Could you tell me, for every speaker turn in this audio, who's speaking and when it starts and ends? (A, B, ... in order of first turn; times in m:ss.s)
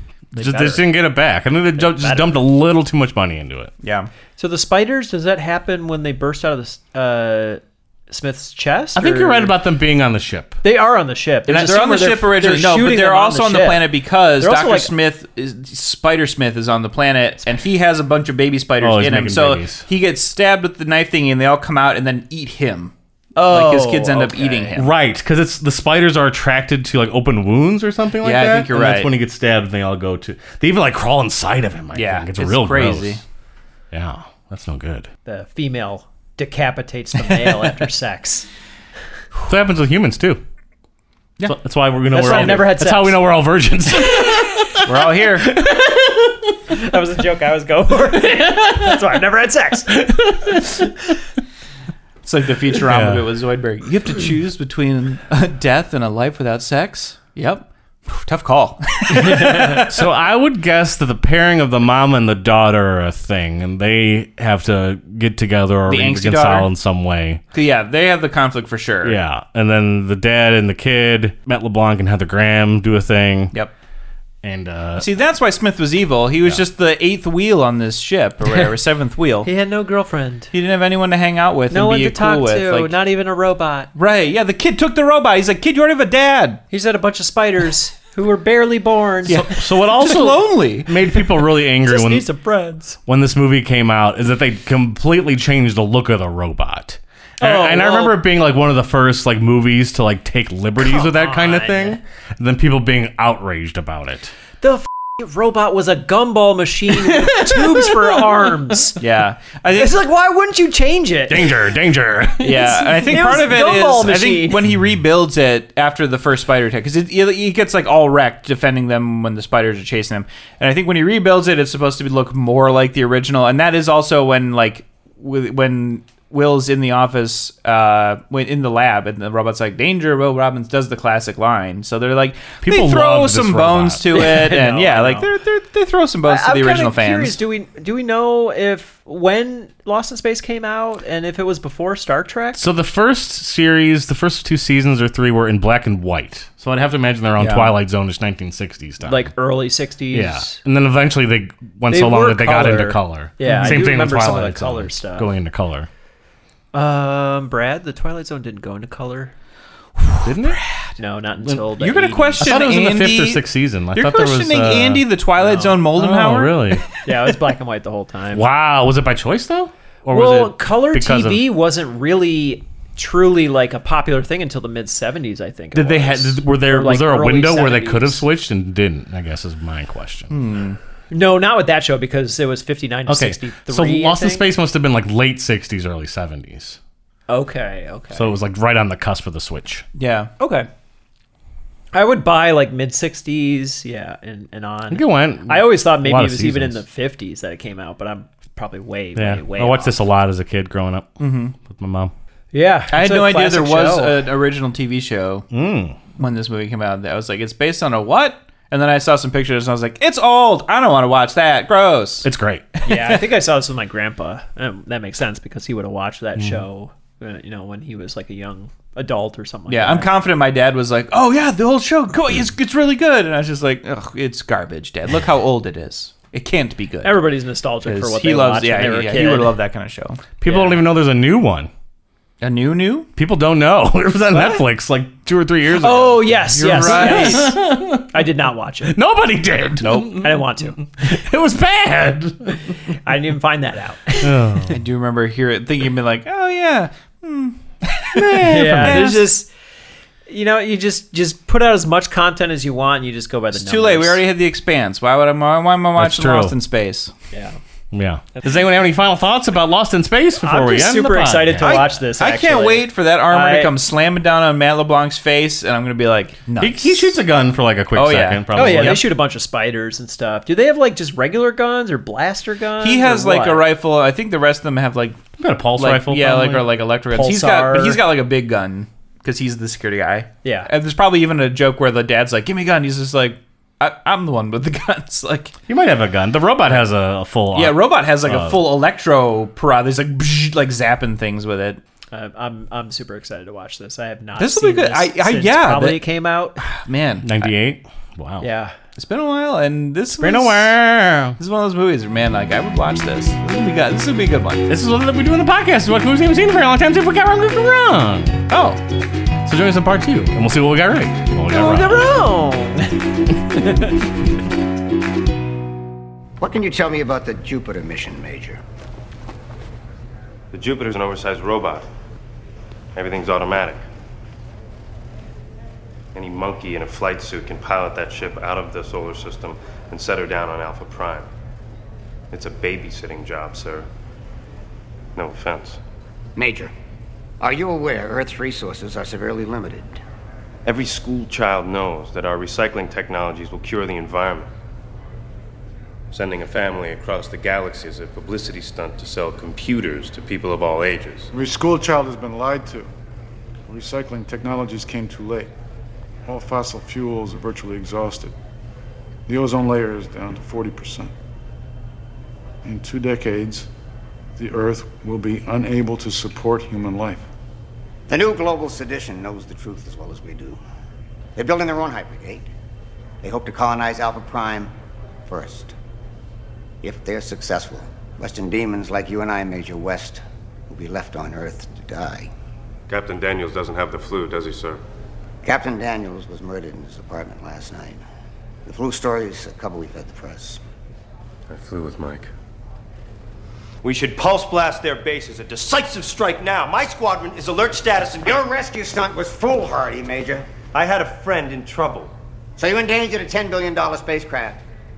0:00.3-0:03.7 A
0:00.4-0:00.9 B
0:01.8-0:02.3 B
0:03.8-0:04.1 C
0:04.4-0:09.5 B
0:08.9-0:10.6 A
0:10.6-0:14.9 B
0:11.4-0:22.9 C
0:18.8-0:19.8 A
0:23.4-0:24.7 B
0:23.4-0:24.9 C
0:24.8-0:33.2 A
0:28.2-0:29.1 C
0:31.9-0:33.2 C
0:33.9-0:35.1 A
0:35.2-0:38.5 B
0:39.5-0:40.4 A
0:41.4-0:44.8 A
0:42.1-0:43.2 B
0:44.1-0:44.6 B
0:44.8-0:45.5 C
0:45.5-0:45.9 A
0:45.6-0:45.9 B
0:46.7-0:50.0 B
0:49.9-0:50.8 A
0:52.2-1:00.0 C
0:52.9-0:53.2 A
0:59.4-0:59.8 B
0:59.6-1:07.4 A
1:05.9-1:06.7 C
1:07.5-1:09.2 C
1:09.0-1:13.5 A
1:14.4-1:15.1 A
1:15.0-1:19.5 C
1:19.4-1:20.5 B
1:20.5-1:22.9 C
1:21.7-1:23.9 B
1:23.9-1:26.6 C
1:26.7-1:29.5 B
1:29.3-1:30.9 C
1:29.3-1:32.2 A
1:31.8-1:33.0 B
1:33.0-1:44.3 A
1:37.4-1:38.2 B
1:40.8-1:42.0 B
1:44.6-1:49.0 B
1:47.2-1:47.9 A
1:49.0-1:50.0 C
1:49.7-1:51.7 B
1:51.3-1:53.0 A
1:52.4-2:17.4 C
1:53.0-1:54.6 B
2:12.6-2:14.5 A
2:14.3-2:15.3 B
2:16.3-2:22.6 B
2:22.5-2:29.3 A
2:27.4-2:27.7 C
2:29.0-2:30.6 B
2:30.1-2:35.9 A
2:31.9-2:35.3 B
2:33.4-2:33.9 C
2:36.7-2:39.3 B
2:40.0-2:42.6 B
2:40.2-2:40.6 A
2:41.8-2:46.8 C
2:42.4-2:45.1 A
2:45.4-2:45.8 B
2:46.0-2:46.8 A
2:47.0-2:48.4 B
2:48.3-2:51.4 A
2:50.1-2:58.2 B
2:55.7-3:00.3 A
3:00.3-3:00.8 C
3:01.1-3:04.5 B
3:03.1-3:06.8 A
3:07.3-3:08.4 B
3:08.1-3:09.8 A
3:10.0-3:10.7 C
3:11.9-3:20.0 B
3:14.9-3:16.8 A
3:19.1-3:22.1 A
3:21.2-3:21.5 C
3:22.5-3:24.2 B
3:22.9-3:25.4 C
3:25.5-3:26.0 A
3:26.2-3:33.2 C
3:32.2-3:32.7 A
3:32.8-3:40.1 B
3:39.7-3:47.2 C
3:47.0-3:49.6 B
3:47.8-3:50.8 C
3:50.4-3:51.7 A
3:52.4-3:53.1 C
3:53.2-3:58.1 A
3:55.8-3:59.0 B
3:56.5-3:57.6 C
3:58.9-4:00.3 A
3:59.8-4:00.2 C
4:00.1-4:00.9 B
4:00.8-4:02.6 A
4:03.0-4:04.4 B
4:04.2-4:04.8 A
4:04.7-4:09.3 C
4:08.1-4:09.2 A
4:08.4-4:09.5 B
4:10.3-4:14.2 B
4:13.5-4:17.1 C
4:16.0-4:16.6 A
4:17.3-4:17.6 B
4:17.9-4:21.8 A
4:20.4-4:23.7 B
4:21.6-4:27.2 C
4:26.6-4:29.0 A
4:27.9-4:29.0 C
4:28.5-4:33.7 B
4:32.8-4:35.2 C
4:35.4-4:36.7 A
4:35.8-4:45.5 C
4:37.1-4:38.0 B
4:40.4-4:40.7 B
4:45.7-4:48.6 A
4:47.5-4:51.8 C
4:52.1-4:56.6 B
4:54.4-4:56.0 C
4:56.8-4:57.5 C
4:57.2-4:58.4 A
4:58.4-4:58.7 B
4:59.0-5:00.8 C
5:00.2-5:01.4 A
5:01.4-5:04.7 C
5:04.7-5:08.5 A
5:08.5-5:08.8 C
5:09.4-5:12.1 A
5:11.5-5:13.0 B
5:16.4-5:18.6 D
5:20.5-5:21.8 E
5:22.9-5:23.8 E
5:26.1-5:31.3 E
5:32.3-5:33.9 E
5:35.1-5:35.8 E
5:36.4-5:36.7 D
5:37.4-5:40.0 D
5:40.6-5:44.5 E
5:46.1-5:51.3 E
5:51.3-5:52.9 F
5:53.7-5:55.5 F
5:56.2-5:58.3 F
5:59.3-6:01.1 F
6:02.6-6:03.7 F
6:04.4-6:07.2 F
6:08.1-6:10.6 D
6:11.4-6:12.4 D
6:13.2-6:14.7 D
6:15.3-6:15.7 D
6:16.8-6:22.3 D
6:22.9-6:24.8 E
6:25.4-6:28.0 D
6:28.6-6:30.6 D
6:31.5-6:32.3 E
6:33.8-6:38.3 G
6:38.3-6:40.5 D
6:40.7-6:42.1 G
6:42.6-6:44.6 D